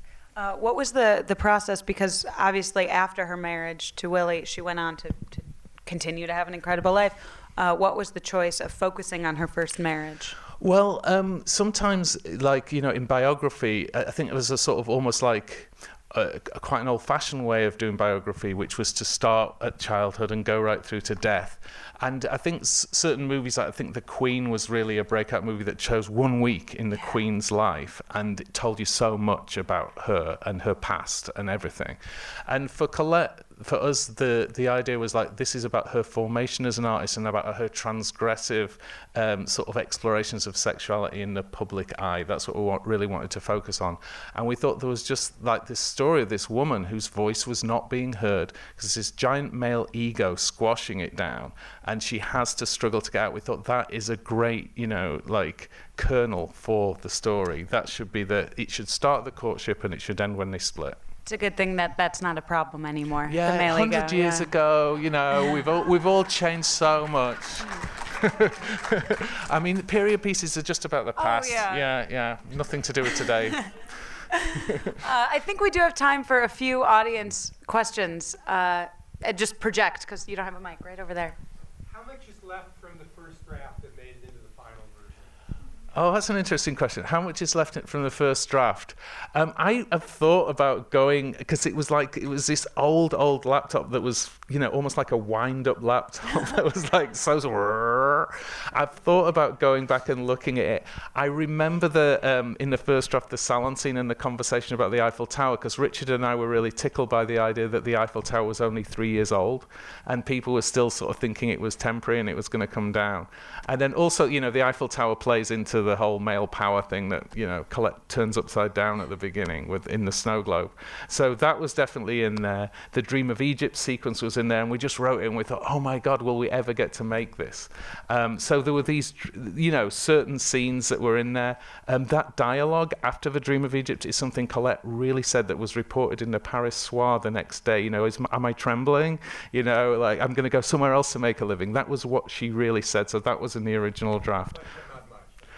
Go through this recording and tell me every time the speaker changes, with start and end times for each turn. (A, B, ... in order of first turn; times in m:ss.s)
0:00.4-0:10.4 A
0:10.6-1:01.0 B
1:01.2-1:04.5 A
1:03.2-1:13.7 B
1:11.2-1:11.8 A
1:14.5-1:21.4 A
1:14.6-1:14.9 B
1:21.9-1:25.4 C
1:25.9-2:24.6 B
2:24.5-2:25.4 C